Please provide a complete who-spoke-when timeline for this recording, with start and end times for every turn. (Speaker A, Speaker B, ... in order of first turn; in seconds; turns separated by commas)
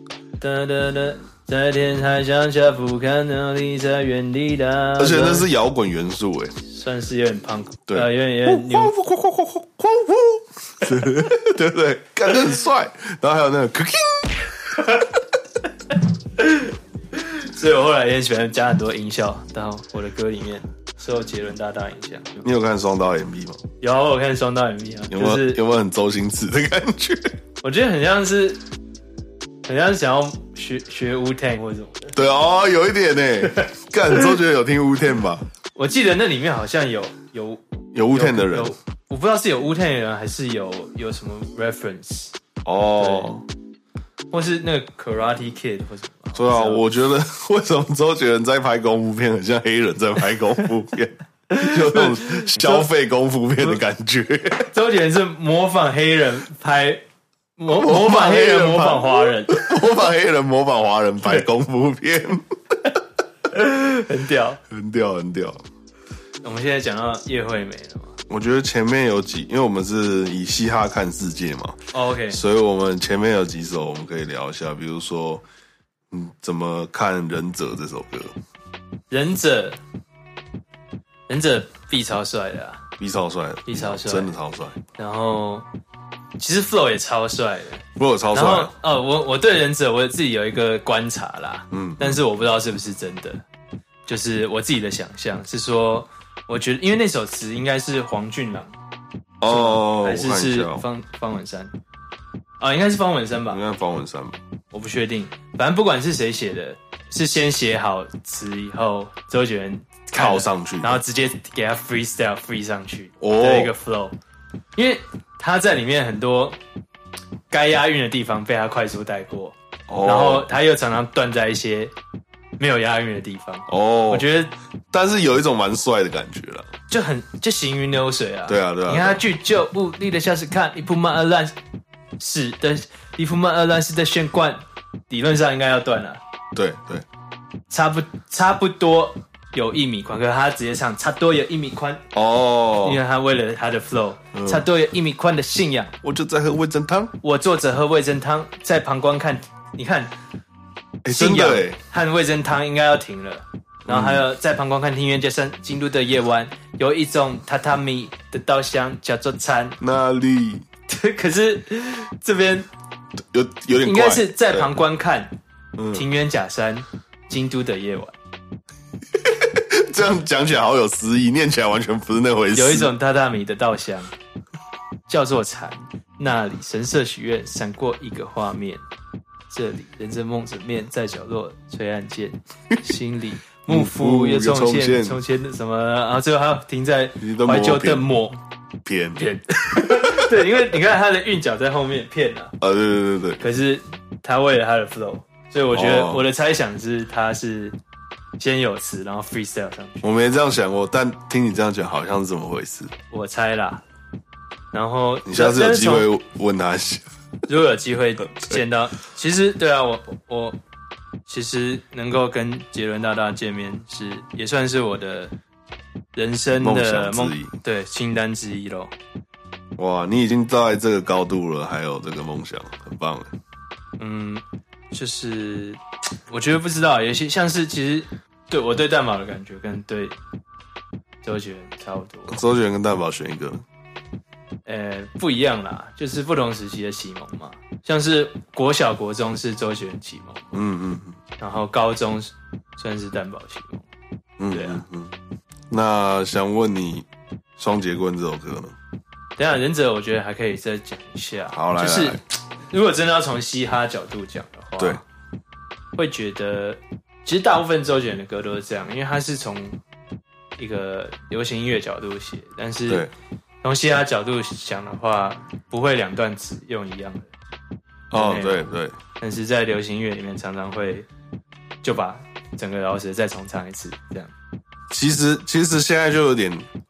Speaker A: 0.4-5.5, Speaker B: 5.0-6.5, Speaker A: 6.7-8.9, Speaker B: 7.9-14.5, Speaker A: 16.4-22.4, Speaker B: 22.4-23.6, Speaker A: 23.8-25.6, Speaker B: 25.1-27.4, Speaker A: 27.6-28.6, Speaker A: 29.7-32.1, Speaker B: 32.1-35.5, Speaker A: 35.8-37.6, Speaker B: 37.9-38.8, Speaker A: 38.1-42.3, Speaker B: 42.6-43.5, Speaker A: 43.0-43.3, Speaker A: 44.3-46.9, Speaker B: 46.3-54.7, Speaker A: 51.5-52.9, Speaker A: 54.7-57.0, Speaker A: 57.6-59.7, Speaker B: 57.7-62.5, Speaker A: 63.5-64.6, Speaker B: 64.7-65.6, Speaker A: 66.4-68.2, Speaker B: 68.3-71.8, Speaker A: 71.9-72.4, Speaker B: 72.3-75.4, Speaker B: 76.1-78.3, Speaker A: 79.1-79.8, Speaker A: 81.3-82.9, Speaker B: 83.0-84.8, Speaker A: 83.7-84.3, Speaker A: 85.0-85.7, Speaker A: 86.4-93.4, Speaker B: 88.0-88.7, Speaker B: 91.7-92.2, Speaker A: 94.1-98.7, Speaker B: 99.4-100.9, Speaker A: 99.5-101.7, Speaker A: 102.6-103.6, Speaker B: 103.5-104.4, Speaker A: 104.7-114.2, Speaker B: 110.2-111.0, Speaker B: 113.2-113.8, Speaker A: 114.8-116.6, Speaker A: 117.5-121.9, Speaker B: 119.9-120.5, Speaker A: 122.6-124.5, Speaker B: 123.7-124.3, Speaker B: 124.9-126.7, Speaker A: 126.9-131.5, Speaker B: 128.5-129.2, Speaker A: 132.2-136.2, Speaker B: 136.5-137.1, Speaker A: 137.7-142.0, Speaker B: 142.1-143.0, Speaker A: 142.8-145.9, Speaker B: 144.3-144.7, Speaker B: 146.0-147.2, Speaker A: 147.2-150.1, Speaker B: 151.0-151.8, Speaker A: 151.1-159.8, Speaker B: 153.9-154.2, Speaker B: 159.8-160.7, Speaker A: 160.9-162.7, Speaker B: 163.3-164.7, Speaker A: 163.8-165.3, Speaker B: 165.8-166.0, Speaker A: 165.9-168.2, Speaker B: 169.2-172.9, Speaker A: 172.5-174.1, Speaker A: 175.1-178.8, Speaker A: 179.5-188.4, Speaker B: 183.7-185.2, Speaker B: 187.2-188.1, Speaker B: 188.8-190.7, Speaker A: 189.2-192.5, Speaker B: 192.6-193.4, Speaker A: 193.4-197.8, Speaker B: 195.7-196.2, Speaker A: 198.4-200.1, Speaker B: 200.0-202.9, Speaker A: 203.1-203.8, Speaker A: 204.7-206.1, Speaker B: 205.3-207.1, Speaker A: 207.5-210.6, Speaker A: 211.3-215.3, Speaker A: 216.2-218.9, Speaker B: 216.6-217.5, Speaker B: 219.8-223.3, Speaker A: 224.0-230.2, Speaker A: 231.2-232.4, Speaker B: 232.3-233.6, Speaker A: 234.7-240.6, Speaker B: 240.5-241.2, Speaker A: 241.4-243.8, Speaker B: 244.4-245.1, Speaker A: 244.5-244.8, Speaker B: 245.7-247.1, Speaker B: 247.6-248.8, Speaker A: 249.4-255.0, Speaker B: 251.5-252.2, Speaker A: 256.0-259.8, Speaker A: 260.6-263.1, Speaker A: 263.6-267.3, Speaker B: 268.1-269.0, Speaker A: 268.1-271.1, Speaker A: 271.8-274.3, Speaker B: 274.9-276.7